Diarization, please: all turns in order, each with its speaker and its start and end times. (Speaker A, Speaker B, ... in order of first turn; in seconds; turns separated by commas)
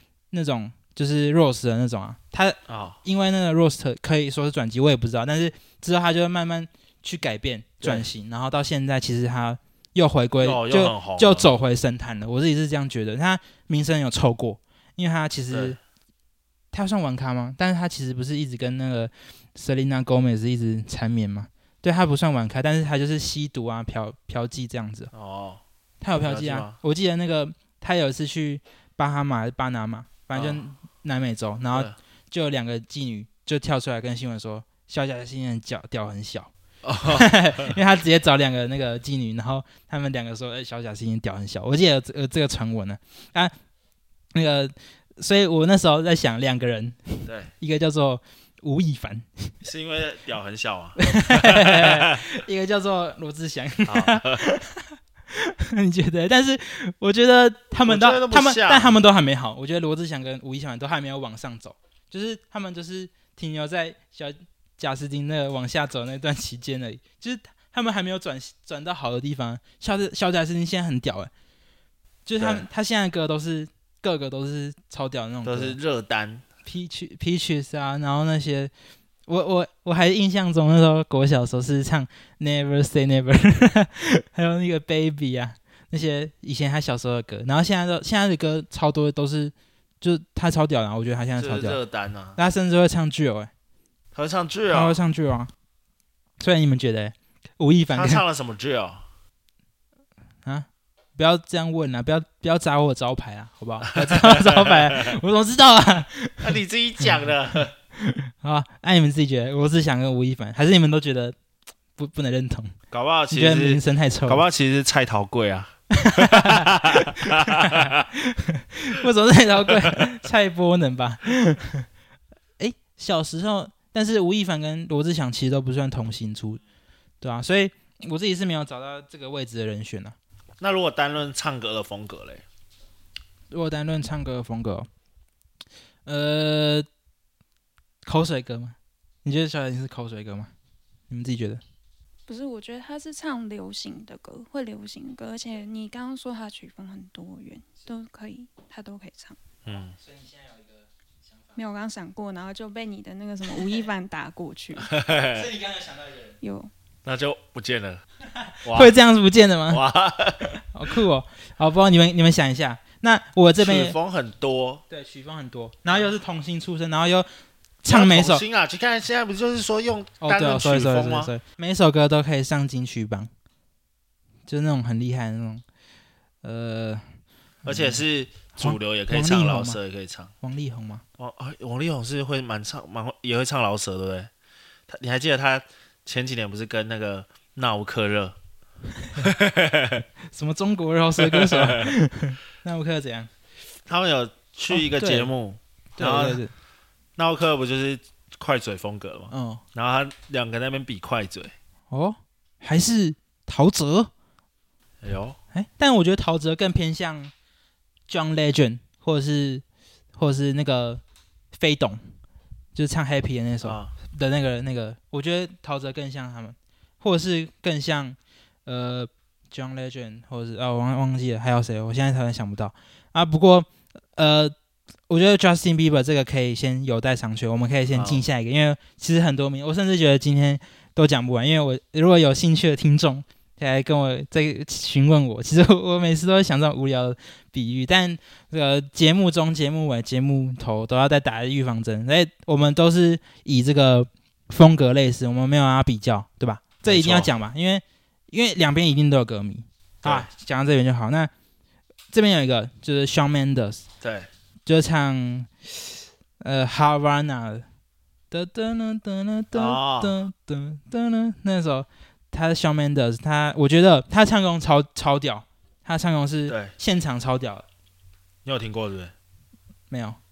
Speaker A: 0.3-15.8, Speaker B: 2.7-3.0, Speaker B: 7.8-8.1, Speaker B: 10.4-11.5, Speaker B: 15.5-15.8, Speaker A: 16.7-25.1, Speaker B: 25.1-25.6, Speaker A: 26.0-36.5, Speaker B: 26.2-26.8, Speaker B: 30.3-30.6, Speaker B: 36.8-37.8, Speaker A: 37.0-43.5, Speaker A: 44.3-49.5, Speaker B: 49.6-52.2, Speaker A: 51.0-71.3, Speaker B: 53.9-54.4, Speaker B: 57.8-59.0, Speaker A: 72.3-75.8, Speaker B: 72.4-72.7, Speaker B: 75.5-76.4, Speaker A: 76.7-78.7, Speaker A: 79.3-91.8, Speaker B: 91.4-92.4, Speaker A: 92.4-93.5, Speaker B: 94.1-95.0, Speaker A: 94.7-95.5, Speaker A: 96.4-98.2, Speaker B: 97.9-99.0, Speaker A: 100.5-111.4, Speaker B: 104.0-105.2, Speaker B: 106.4-107.7, Speaker A: 112.0-112.8, Speaker B: 112.9-118.0, Speaker A: 113.3-114.4, Speaker A: 115.9-121.9, Speaker A: 122.6-126.6, Speaker A: 127.2-130.2, Speaker B: 130.6-132.4, Speaker A: 133.5-134.9, Speaker A: 136.1-136.9, Speaker A: 138.1-140.5, Speaker A: 141.1-141.6, Speaker C: 142.3-149.4, Speaker B: 149.7-150.0, Speaker A: 150.0-151.6, Speaker C: 151.6-154.9, Speaker B: 154.8-155.5, Speaker A: 155.3-156.3, Speaker C: 156.4-156.7, Speaker B: 157.1-158.0, Speaker A: 158.3-159.8, Speaker B: 158.7-158.9, Speaker B: 159.7-160.6, Speaker A: 160.6-164.0, Speaker B: 163.6-164.8, Speaker A: 164.9-167.3, Speaker A: 167.8-168.4, Speaker B: 167.9-171.3, Speaker A: 170.2-173.3, Speaker A: 174.5-175.6, Speaker A: 176.4-177.0, Speaker A: 177.6-178.0, Speaker B: 177.7-180.3, Speaker A: 178.5-179.8, Speaker A: 180.4-181.0, Speaker B: 181.2-184.3, Speaker B: 184.9-188.4, Speaker A: 189.0-189.3, Speaker B: 189.2-190.0, Speaker A: 190.3-193.3, Speaker B: 191.2-191.9, Speaker B: 193.9-196.4, Speaker A: 194.7-195.3, Speaker A: 196.0-196.5, Speaker B: 197.2-201.5, Speaker A: 199.3-199.6, Speaker A: 201.9-204.1, Speaker B: 205.0-205.4, Speaker A: 205.5-207.3, Speaker A: 208.1-209.6, Speaker A: 210.2-211.0, Speaker A: 211.5-212.1, Speaker A: 212.8-224.6, Speaker B: 213.6-213.9, Speaker A: 225.1-251.3, Speaker B: 227.9-228.2, Speaker B: 246.9-247.3, Speaker B: 250.0-250.3, Speaker A: 252.1-253.8, Speaker B: 254.0-254.3, Speaker A: 254.7-255.5, Speaker A: 256.4-257.7, Speaker A: 258.3-267.6, Speaker B: 259.5-260.1, Speaker B: 268.4-269.1, Speaker A: 269.9-270.2